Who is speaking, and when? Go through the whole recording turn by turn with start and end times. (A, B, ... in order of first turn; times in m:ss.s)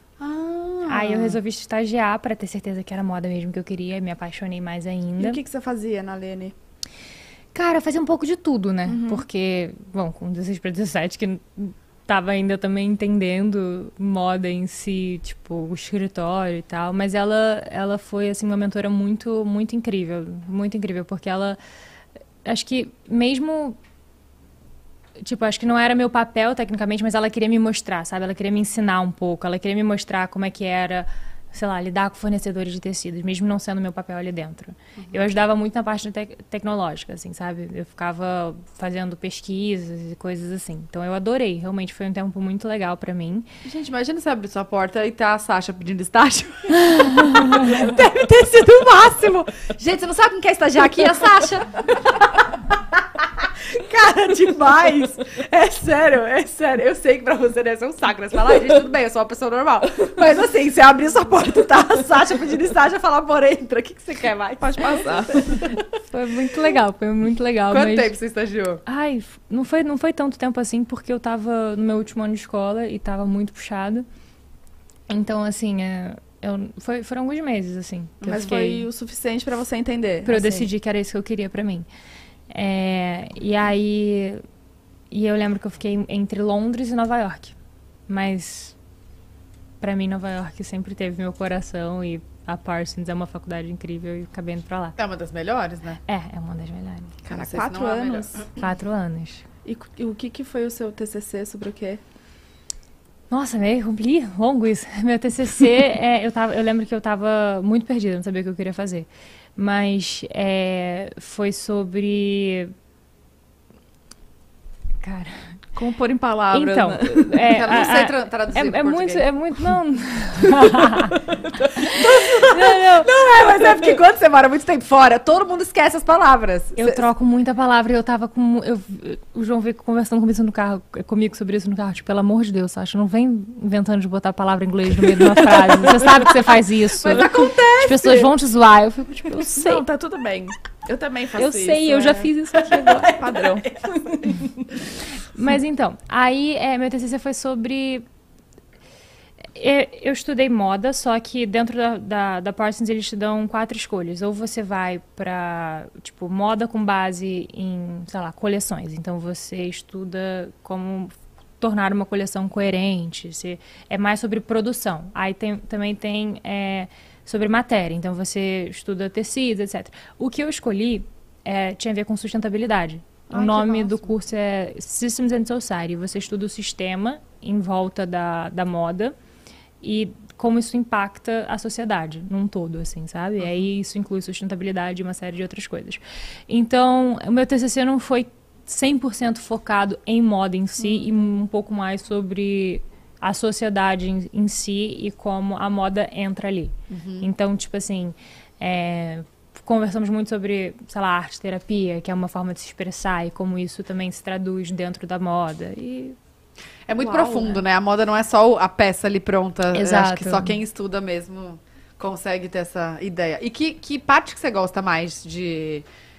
0:00.2-0:01.4 A
0:00.9-0:05.4 B
0:05.2-0:06.5 C
0:07.6-0:21.6 B
0:08.9-0:09.2 C
0:22.4-0:23.8 B
0:25.2-0:43.5 B
0:35.0-0:35.3 A
0:43.6-0:52.5 A
0:53.2-1:05.7 A
1:04.6-1:05.5 C
1:05.9-1:08.2 B
1:07.7-1:08.8 A
1:08.9-1:14.0 B
1:15.1-1:18.9 B
1:18.2-1:18.6 A
1:18.3-1:20.7 C
1:20.2-1:21.9 B
1:22.5-1:24.4 B
1:25.1-1:27.6 B
1:28.1-1:28.8 B
1:29.8-1:35.0 B
1:35.0-1:36.0 A
1:36.1-1:37.2 B
1:37.2-1:38.5 C
1:37.3-1:38.5 A
1:38.6-1:39.5 B
1:39.6-1:42.0 C
1:43.3-1:52.7 B
1:55.0-1:55.4 B
1:55.8-1:59.3 A
1:56.5-2:01.2 B
2:01.7-2:03.1 B
2:01.9-2:07.1 A
2:06.8-2:19.8 B
2:17.0-2:18.3 C
2:19.5-2:24.7 C
2:21.3-2:23.1 B
2:25.2-2:28.0 B
2:29.6-2:59.1 B
2:53.3-2:54.1 A
2:59.8-3:26.2 B
3:16.9-3:17.3 A
3:26.9-3:35.9 A
3:27.0-3:27.6 B
3:29.7-3:30.6 B